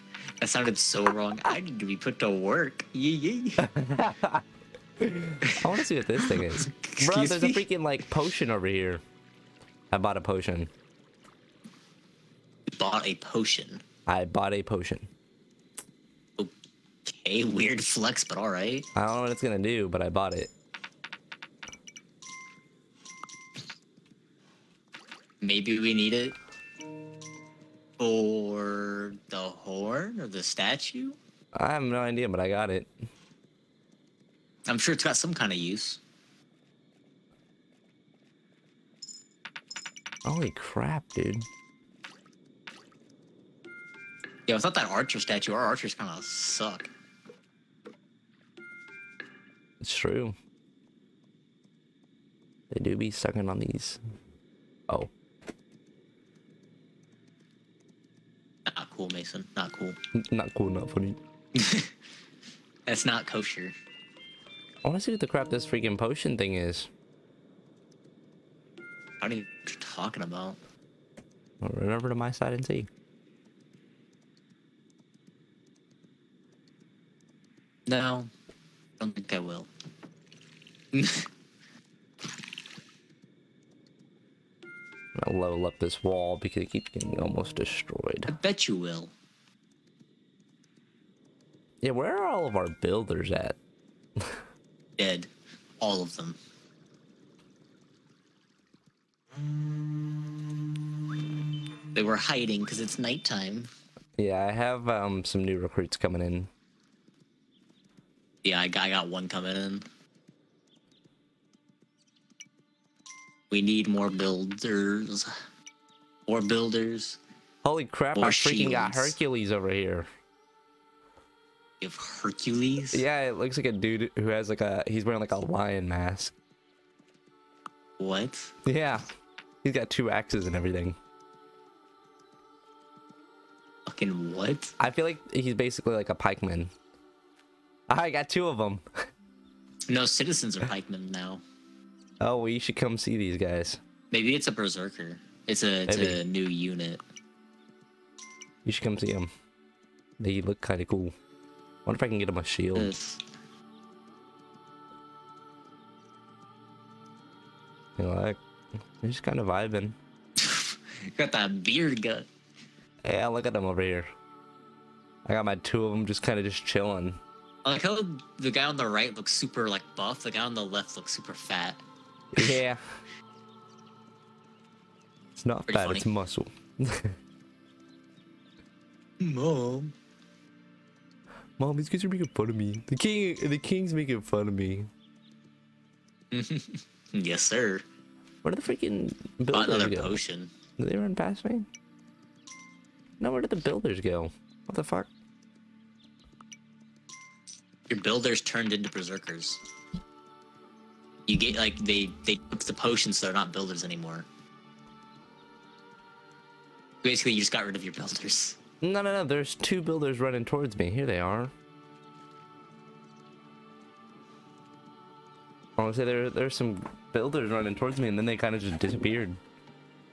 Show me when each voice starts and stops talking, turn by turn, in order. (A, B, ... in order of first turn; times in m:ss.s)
0:00.4-0:03.7 A
0:03.6-0:04.4 B
0:05.0-0:09.0 B
0:05.4-0:07.6 A
0:09.9-0:10.7 B
0:12.8-0:13.8 A
0:14.0-0:15.1 B
0:17.0-0:18.8 A
0:18.9-0:20.5 B
0:25.4-0:26.3 A
0:28.0-0:31.2 A
0:31.5-0:32.9 B
0:34.7-0:36.0 A
0:40.2-0:41.5 B
0:44.5-0:46.9 A
0:49.8-0:50.3 B
0:52.7-0:54.0 B
0:58.7-1:00.0 A
1:00.1-1:01.2 B
1:01.5-1:01.9 A
1:02.9-1:03.7 A
1:04.8-1:06.9 B
1:09.2-1:10.6 A
1:11.6-1:12.9 B
1:17.9-1:18.3 A
1:19.0-1:19.7 A
1:20.9-1:21.3 A
1:25.2-1:28.3 B
1:28.3-1:29.1 A
1:31.8-1:33.6 B
1:34.2-1:34.4 B
1:35.0-1:35.3 A
1:35.8-1:36.4 A
1:41.9-1:43.7 A
1:44.2-1:46.5 B
1:48.4-1:49.8 A
1:53.5-1:55.3 A
1:56.3-1:57.2 A
1:57.6-2:00.1 B
1:58.1-1:59.2 A
2:01.8-2:03.0 A
2:02.9-2:06.3 B
2:08.0-2:08.5 A
2:08.6-2:09.1 B
2:09.6-2:11.0 B
2:13.9-2:14.7 A
2:14.8-2:16.7 B
2:17.9-2:18.8 B
2:19.9-2:21.4 A
2:22.2-2:23.8 B
2:24.1-2:27.0 A
2:25.9-2:26.2 B
2:28.6-2:29.3 B
2:30.2-2:31.1 B
2:31.8-2:32.9 B
2:32.7-2:33.2 A
2:38.0-2:38.4 B
2:39.0-2:40.0 B
2:40.4-2:42.3 A
2:43.0-2:44.1 B
2:45.2-2:47.2 B
2:47.6-2:51.8 A
2:52.3-2:52.9 B
2:55.4-2:57.1 B
2:55.7-2:56.0 A
2:59.2-2:59.9 A
3:01.6-3:04.9 B
3:06.3-3:07.8 A
3:08.4-3:10.2 B
3:09.5-3:10.5 A
3:10.8-3:11.7 B
3:13.2-3:15.1 B
3:17.9-3:19.6 A
3:21.3-3:24.3 A
3:27.0-3:28.6 A
3:28.8-3:31.5 B
3:35.8-3:39.4 B